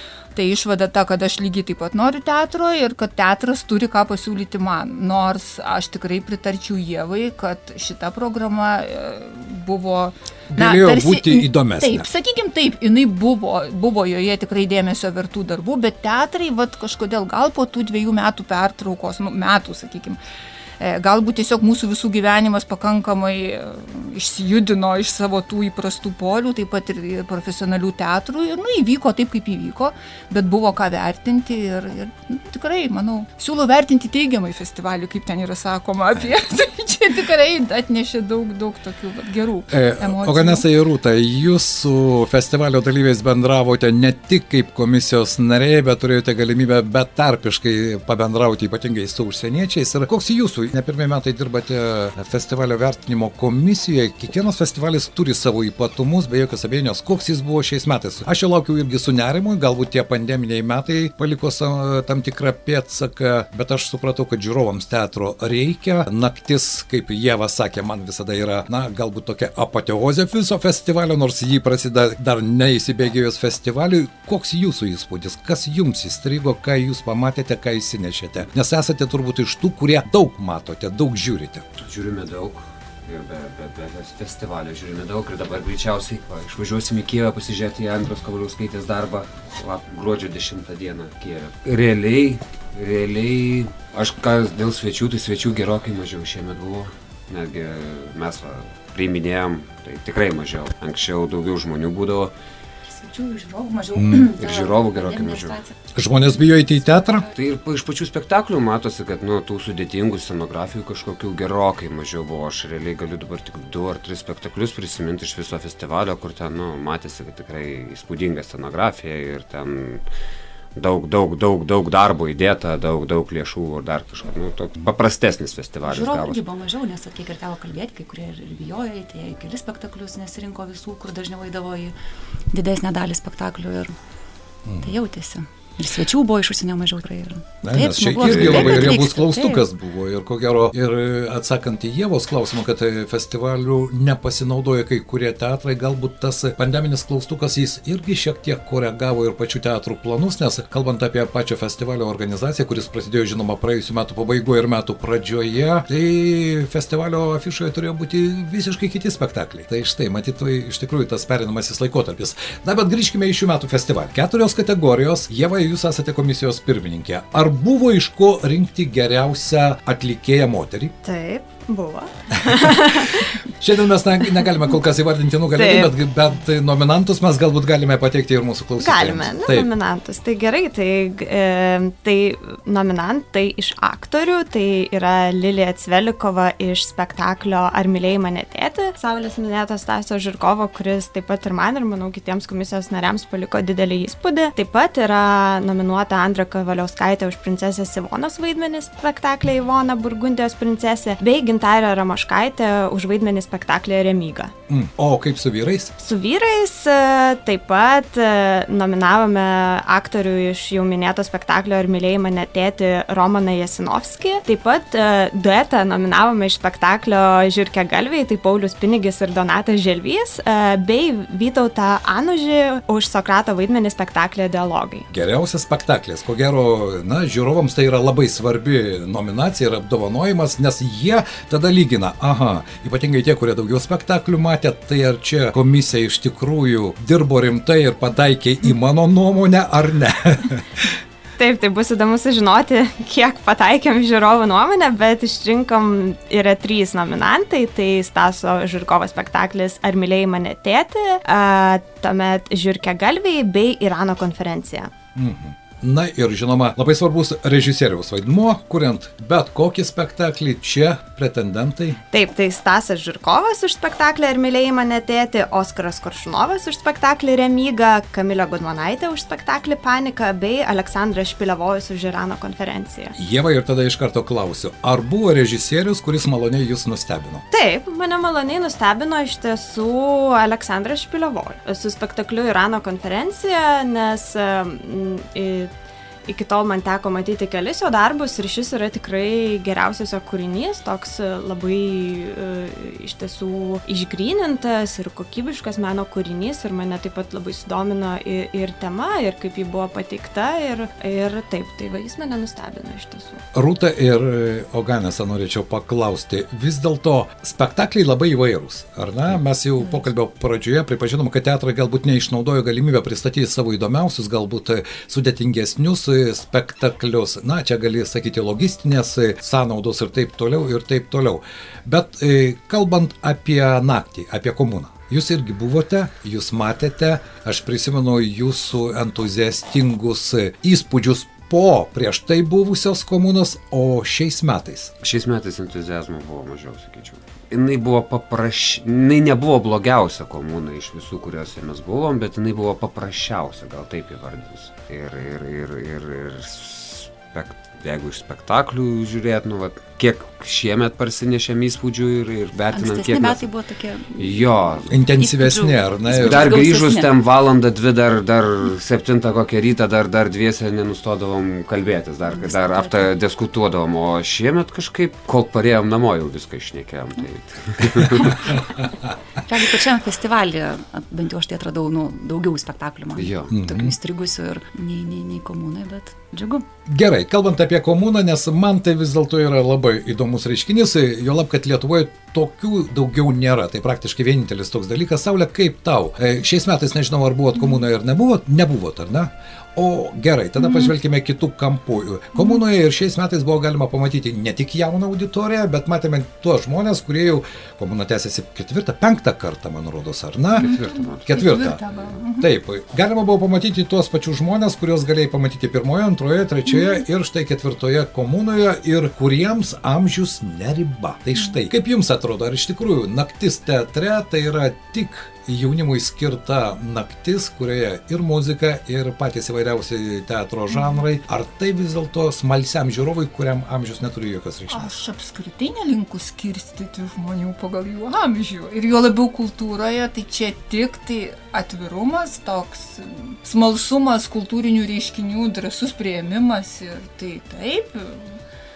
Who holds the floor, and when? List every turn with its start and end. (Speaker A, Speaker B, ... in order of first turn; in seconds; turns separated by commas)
Speaker A: 0.3-20.2, Speaker B: 10.5-12.1, Speaker A: 20.8-40.6, Speaker B: 39.7-81.6, Speaker C: 81.8-102.3, Speaker D: 102.8-105.7, Speaker B: 103.9-104.2, Speaker C: 104.4-105.6, Speaker B: 105.9-107.2, Speaker C: 107.3-120.0, Speaker C: 120.7-126.4, Speaker D: 125.8-131.9, Speaker D: 132.5-133.9, Speaker B: 134.7-134.9, Speaker D: 134.8-139.6, Speaker B: 137.6-170.9, Speaker C: 138.1-139.0, Speaker E: 171.0-173.2, Speaker B: 172.4-179.7, Speaker E: 175.5-175.9, Speaker E: 178.8-204.5, Speaker B: 204.7-205.9, Speaker E: 206.0-225.1, Speaker B: 225.1-241.0, Speaker E: 241.4-254.9, Speaker B: 255.1-262.0, Speaker E: 262.1-273.1, Speaker B: 273.1-277.4, Speaker E: 277.5-285.7, Speaker E: 286.2-303.4, Speaker B: 303.5-334.9, Speaker C: 335.0-353.5, Speaker D: 352.7-357.1, Speaker C: 354.2-354.9, Speaker B: 354.9-356.6, Speaker C: 356.1-368.7, Speaker D: 362.2-363.1, Speaker D: 369.4-376.6, Speaker C: 373.1-373.6, Speaker B: 373.5-373.9, Speaker B: 376.9-400.7, Speaker A: 390.6-390.9, Speaker A: 392.4-392.6, Speaker A: 400.6-402.5, Speaker C: 400.6-401.3, Speaker B: 401.2-401.8, Speaker C: 401.9-402.1, Speaker B: 402.4-424.9, Speaker A: 420.7-421.0, Speaker A: 424.7-438.4